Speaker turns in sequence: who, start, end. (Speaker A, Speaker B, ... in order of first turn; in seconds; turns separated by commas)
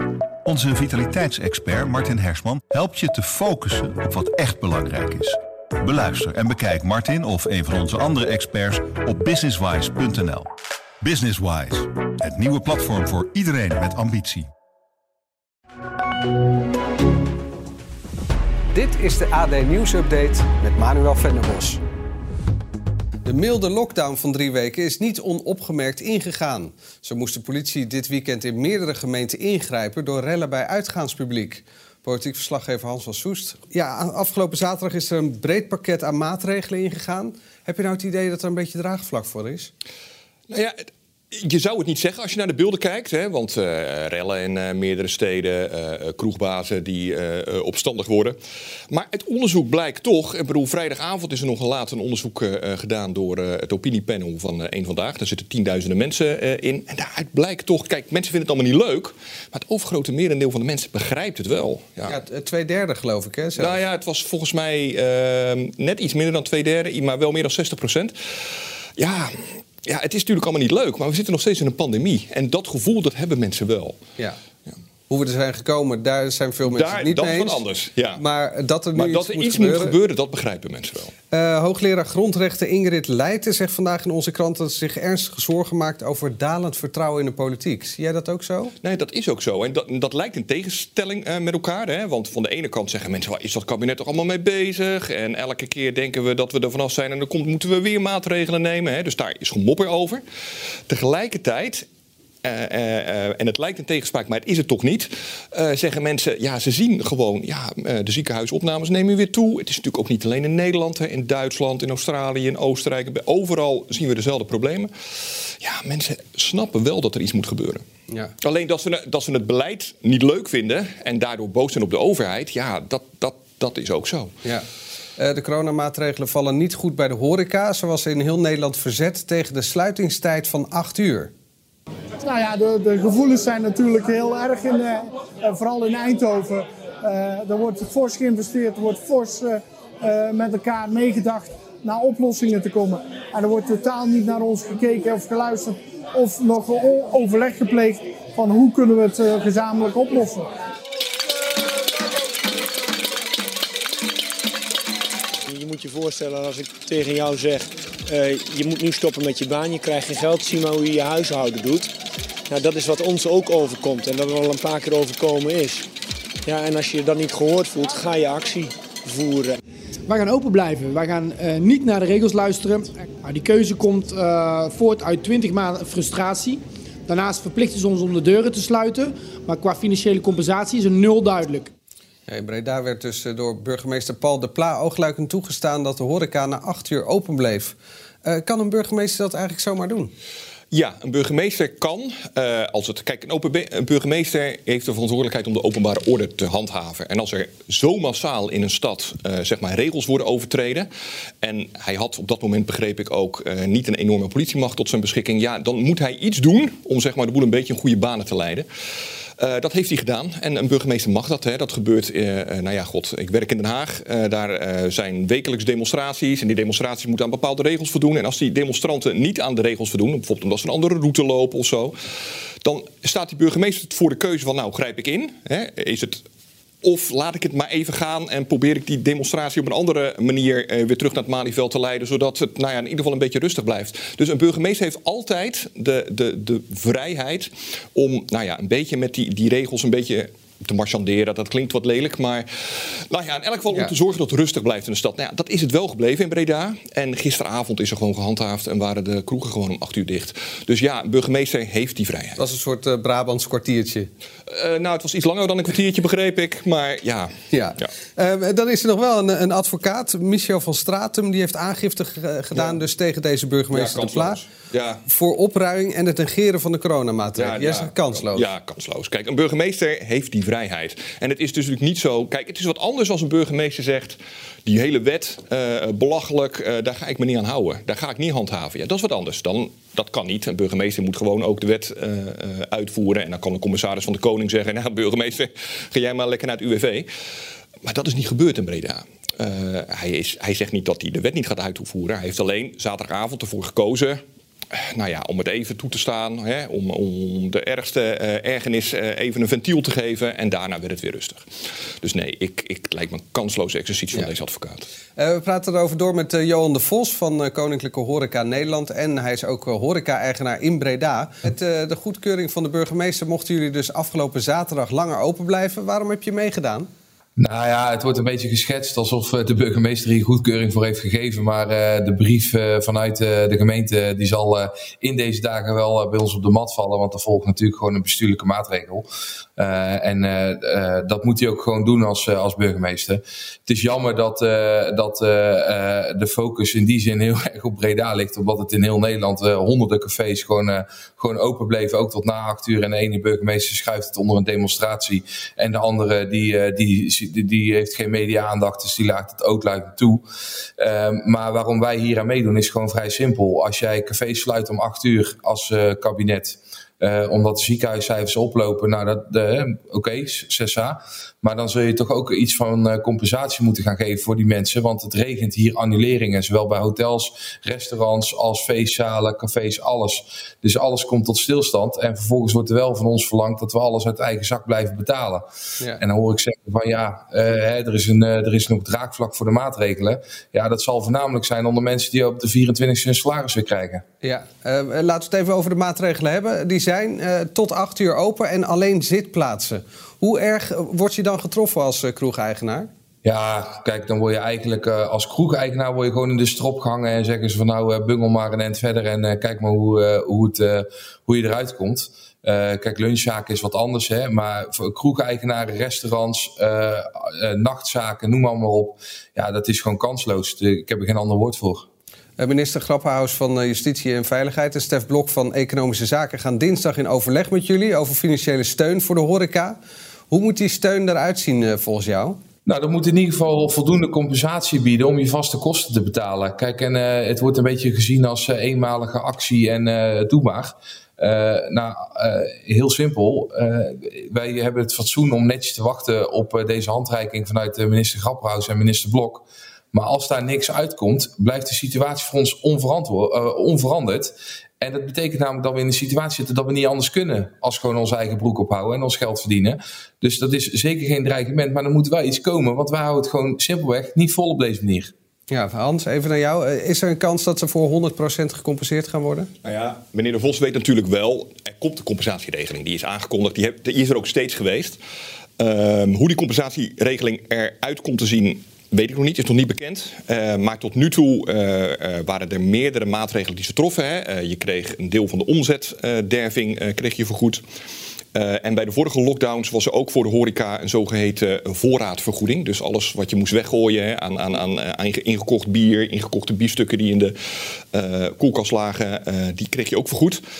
Speaker A: 0.5-10.5, Speaker A: 11.0-14.5, Speaker B: 18.7-21.8, Speaker B: 23.2-39.7, Speaker C: 40.5-40.8, Speaker C: 41.3-48.4, Speaker C: 48.9-62.2, Speaker B: 62.1-63.8, Speaker C: 63.6-68.1, Speaker C: 69.0-74.0, Speaker B: 75.1-80.0, Speaker C: 76.7-78.2, Speaker C: 78.9-81.1, Speaker B: 81.3-88.7, Speaker C: 88.8-100.2, Speaker C: 100.9-101.8, Speaker C: 102.4-114.9, Speaker C: 115.6-117.8, Speaker C: 118.4-124.3, Speaker B: 125.2-131.3, Speaker D: 132.2-150.4, Speaker E: 155.5-161.9, Speaker E: 162.5-165.8, Speaker E: 166.4-169.6, Speaker F: 170.1-181.7, Speaker B: 182.3-190.1, Speaker C: 190.7-200.9, Speaker C: 201.4-208.7, Speaker C: 209.4-221.9, Speaker C: 222.6-226.2, Speaker C: 226.8-252.4, Speaker B: 252.4-254.1, Speaker C: 254.5-257.9, Speaker B: 257.5-264.4, Speaker C: 262.5-262.8, Speaker C: 263.7-265.0, Speaker B: 265.1-268.5, Speaker C: 267.4-287.1, Speaker C: 287.8-301.4, Speaker C: 302.0-304.9, Speaker B: 305.1-316.9, Speaker G: 317.4-350.2, Speaker G: 350.8-375.4, Speaker G: 376.0-384.0, Speaker B: 384.2-392.9, Speaker G: 393.2-411.9, Speaker B: 412.4-419.8, Speaker B: 420.3-422.4, Speaker G: 422.6-455.1, Speaker B: 455.5-459.5, Speaker C: 459.6-465.0, Speaker C: 465.6-477.6, Speaker C: 478.3-487.3, Speaker C: 487.9-490.4